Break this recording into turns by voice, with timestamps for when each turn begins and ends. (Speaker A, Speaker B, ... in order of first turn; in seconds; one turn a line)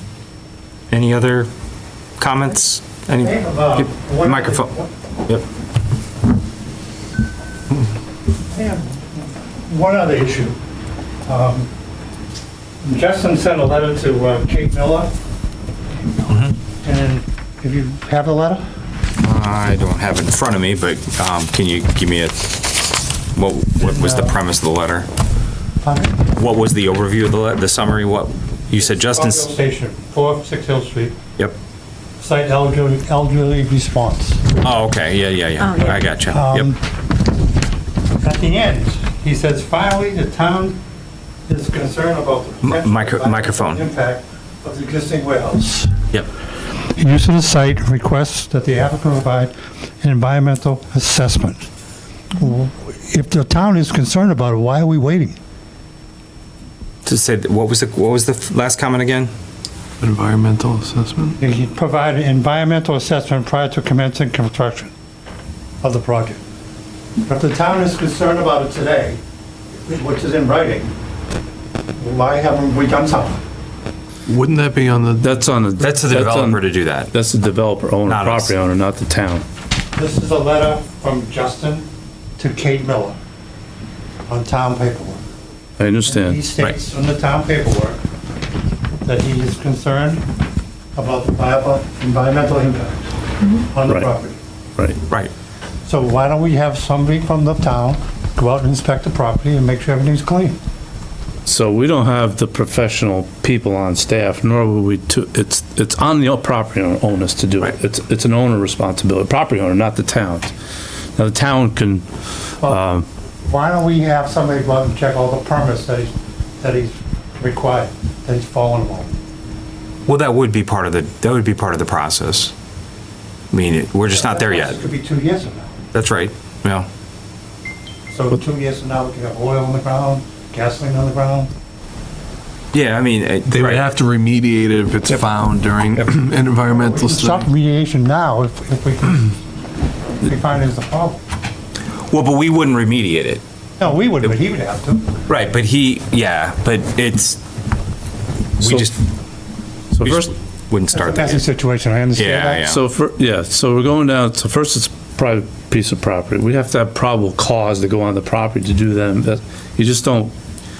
Speaker A: 0.9-1.5
Speaker A: 2.2-4.7
Speaker B: 3.2-4.9
Speaker B: 8.5-10.6
Speaker B: 11.2-11.7
Speaker B: 12.8-15.1
Speaker B: 16.2-18.6
Speaker A: 16.3-16.6
Speaker A: 19.2-22.8
Speaker A: 23.3-25.1
Speaker B: 23.8-24.4
Speaker B: 25.8-26.2
Speaker A: 26.3-29.5
Speaker B: 28.7-31.1
Speaker B: 32.2-34.5
Speaker A: 34.6-36.7
Speaker B: 35.8-36.8
Speaker B: 38.2-40.8
Speaker B: 41.5-45.9
Speaker A: 42.6-43.8
Speaker B: 47.0-51.7
Speaker B: 52.3-55.4
Speaker A: 57.0-59.3
Speaker C: 60.0-61.4
Speaker B: 61.4-64.9
Speaker B: 65.8-66.4
Speaker B: 67.3-69.2
Speaker B: 69.8-70.9
Speaker B: 72.0-73.4
Speaker C: 74.3-75.3
Speaker D: 75.2-79.4
Speaker A: 75.8-77.1
Speaker A: 78.0-78.5
Speaker B: 79.9-81.9
Speaker B: 82.4-83.2
Speaker B: 84.3-85.2
Speaker D: 85.8-86.5
Speaker B: 86.0-88.0
Speaker B: 89.0-90.2
Speaker B: 90.9-94.3
Speaker B: 95.8-100.6
Speaker D: 101.5-110.5
Speaker D: 111.2-112.0
Speaker D: 112.6-113.0
Speaker B: 113.4-119.1
Speaker A: 120.1-122.5
Speaker A: 123.5-124.8
Speaker B: 124.1-125.8
Speaker A: 125.9-126.9
Speaker B: 128.1-131.5
Speaker A: 132.7-133.8
Speaker C: 133.5-137.4
Speaker B: 136.7-139.4
Speaker B: 140.2-141.2
Speaker A: 142.1-143.4
Speaker B: 143.8-145.1
Speaker A: 145.3-147.4
Speaker A: 148.6-148.9
Speaker D: 148.6-148.9
Speaker D: 150.0-150.3
Speaker A: 150.0-151.4
Speaker B: 150.9-152.7
Speaker A: 152.2-152.8
Speaker D: 152.6-160.3